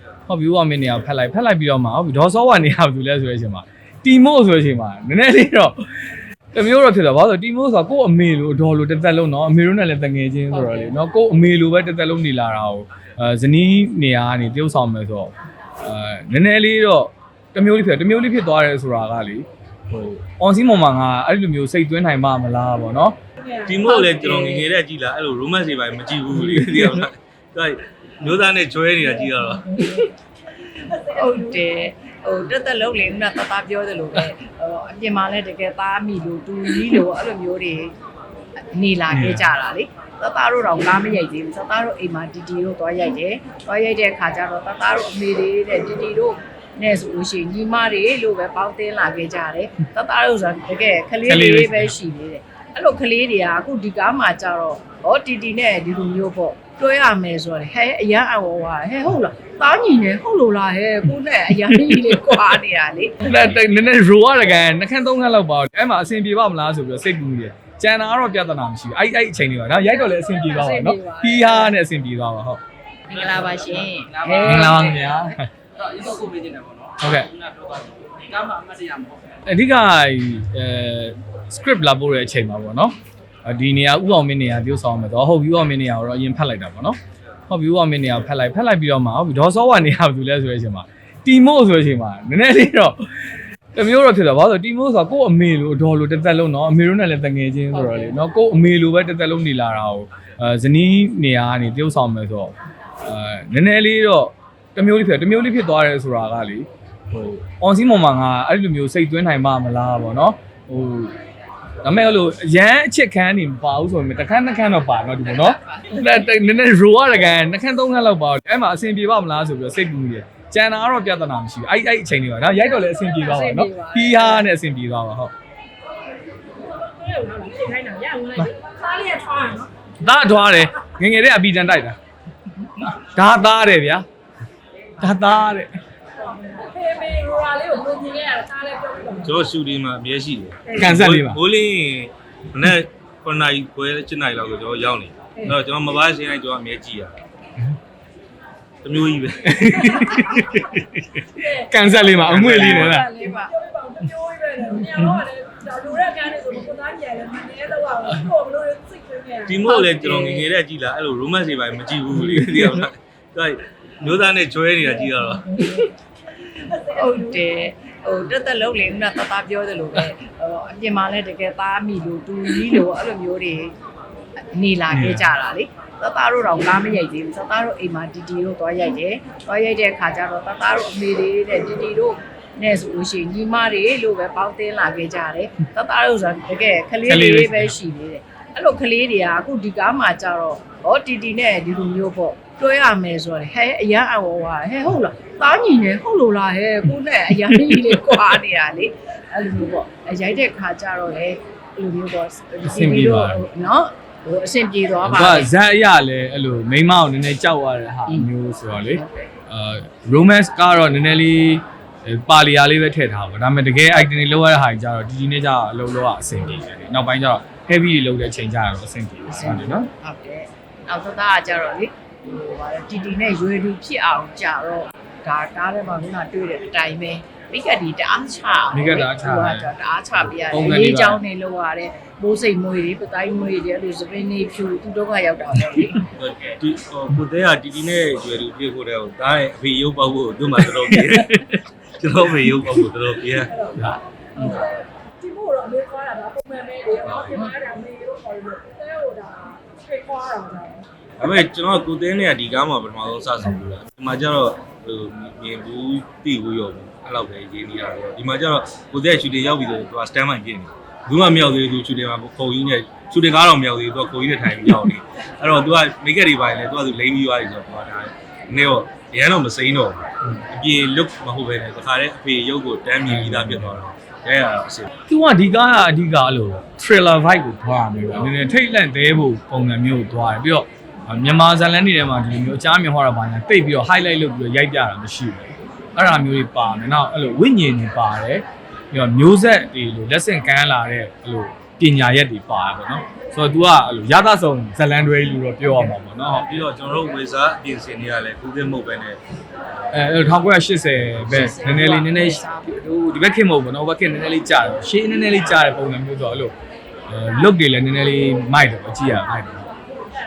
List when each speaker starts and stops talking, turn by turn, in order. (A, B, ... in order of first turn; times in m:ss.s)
0:00.3-0:05.9 A
0:06.5-0:23.2 A
0:10.6-0:10.9 B
0:23.5-0:23.9 C
0:23.6-0:29.8 D
0:24.3-0:24.6 B
0:29.8-0:30.1 B
0:30.9-0:37.9 B
0:31.1-0:31.6 C
0:38.7-1:03.6 B
0:39.1-0:39.4 A
0:51.2-0:51.9 A
1:01.7-1:02.4 A
1:03.2-1:12.6 A
1:09.9-1:11.7 B
1:13.1-1:15.3 B
1:14.4-1:15.5 A
1:16.2-1:16.8 E
1:17.0-1:17.3 A
1:17.6-1:19.1 E
1:19.4-1:51.2 A
1:37.7-1:38.2 B
1:51.8-2:05.3 A
1:55.4-1:56.3 B
2:02.8-2:04.5 B
2:06.7-2:09.7 C
2:10.0-2:12.0 A
2:12.8-2:14.1 A
2:15.0-2:15.8 A
2:16.2-2:19.3 C
2:19.2-2:27.2 D
2:20.8-2:21.4 A
2:28.8-2:30.7 D
2:29.4-2:30.6 A
2:31.4-2:32.2 C
2:31.4-2:33.1 A
2:32.2-2:33.1 D
2:32.4-2:33.5 B
2:33.1-2:39.6 C
2:39.4-2:45.6 D
2:39.7-2:40.4 B
2:42.4-2:42.7 A
2:46.7-2:47.4 C
2:46.9-2:53.8 B
2:54.5-3:25.5 B
3:07.1-3:07.8 A
3:17.4-3:18.2 A
3:22.6-3:23.4 A
3:25.0-3:39.9 A
3:28.1-3:29.1 B
3:39.3-3:56.1 B
3:48.7-3:49.7 A
3:50.3-3:51.2 A
3:56.2-4:03.5 D
4:03.8-4:04.4 A
4:04.4-4:10.9 C
4:11.2-4:34.9 D
4:33.1-4:33.8 A
4:35.1-4:56.5 A
4:56.4-4:59.2 D
4:59.9-5:06.5 A
5:01.3-5:02.8 B
5:07.1-5:09.7 A